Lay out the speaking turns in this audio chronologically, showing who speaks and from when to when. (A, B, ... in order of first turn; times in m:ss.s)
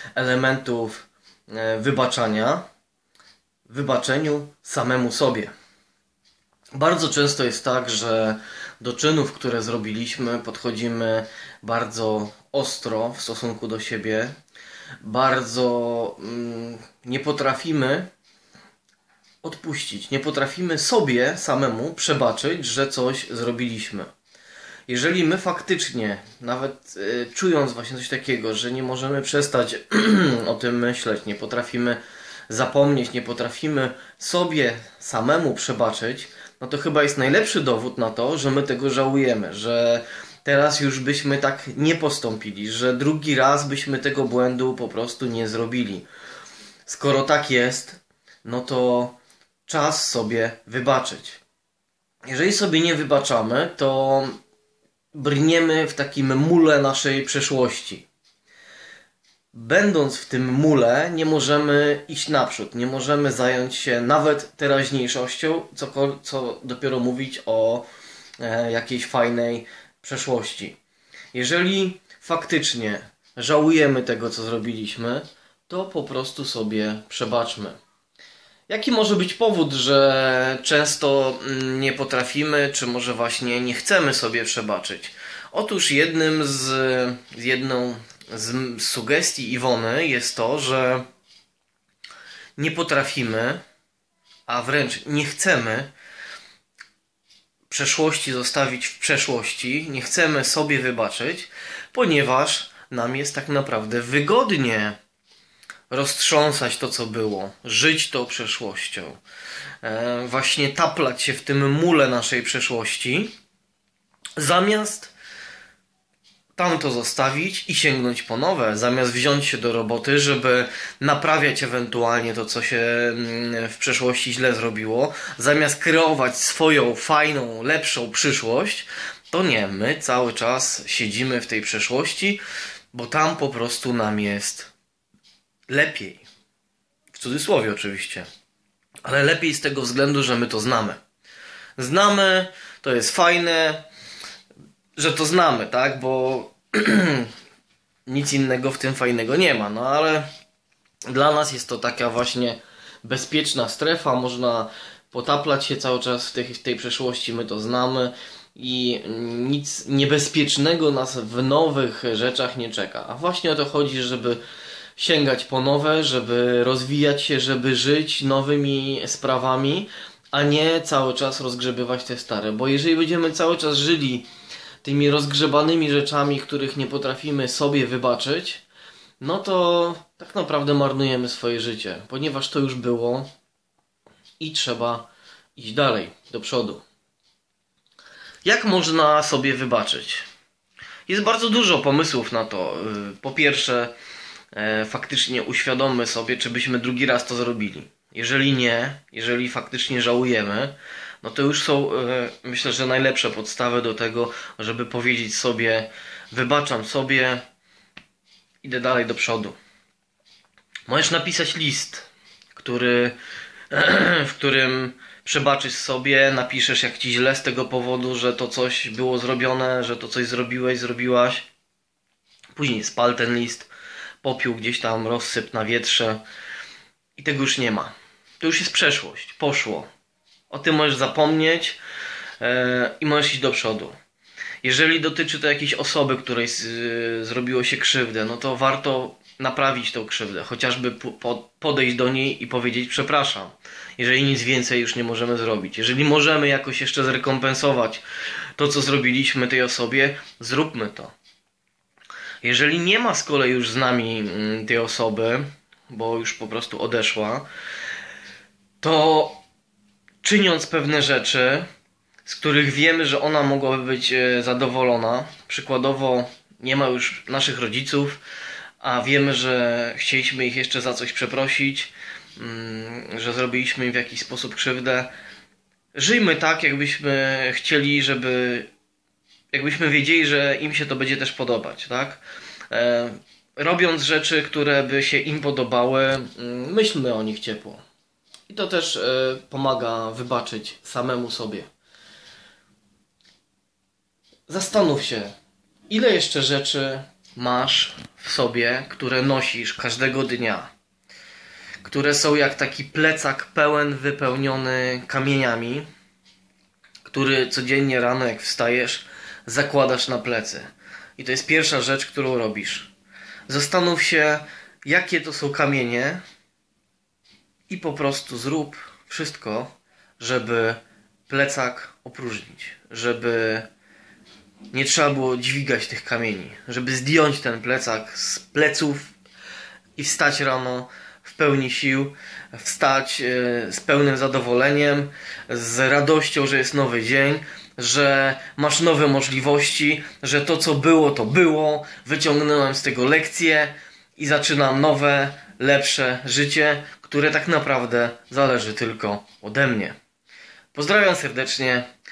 0:00.1-0:02.6 A
0:03.7-0:05.5 A
0:06.7-0:14.4 A
0:15.0-0:18.1 A
0:19.4-0:24.1 A
0:24.9-0:46.1 A
0:46.8-0:51.4 A
0:52.2-0:54.4 A
0:55.1-0:58.1 A
0:59.5-1:07.8 A
1:08.4-1:10.8 A
1:11.3-1:17.8 A
1:18.7-1:31.0 A
1:32.6-1:33.6 A
1:34.5-1:35.9 A
1:37.7-1:45.0 A
1:45.9-1:49.2 A
1:49.8-1:53.3 A
1:54.4-1:55.1 A
1:56.6-2:12.4 A
2:12.9-2:14.7 A
2:15.7-2:16.2 A
2:17.1-2:18.3 A
2:19.0-2:21.0 A
2:21.8-2:23.8 A
2:25.0-2:27.3 A
2:28.0-2:30.3 A
2:31.1-2:44.4 A
2:45.0-2:54.2 A
2:54.8-2:58.6 A
2:59.2-3:03.3 A
3:04.4-3:06.8 A
3:08.4-3:10.2 A
3:11.1-3:13.9 A
3:14.5-3:27.4 A
3:28.6-3:29.6 A
3:30.9-3:33.2 A
3:33.7-3:41.5 A
3:42.5-3:43.7 A
3:44.2-3:46.2 A
3:47.2-3:49.9 A
3:50.5-3:51.8 A
3:52.4-3:54.0 A
3:54.6-4:08.0 A
4:08.6-4:11.1 A
4:12.4-4:17.4 A
4:18.8-4:19.4 A
4:20.2-4:21.7 A
4:22.2-4:28.2 A
4:28.8-4:35.1 A
4:35.9-4:38.7 A
4:39.5-4:47.8 A
4:48.5-4:51.7 A
4:54.5-4:55.3 A
4:55.9-5:00.7 A
5:01.8-5:05.9 A
5:07.0-5:12.9 A
5:13.5-5:16.2 A
5:17.7-5:23.7 A
5:24.7-5:29.1 A
5:30.0-5:50.0 A
5:50.7-5:51.9 A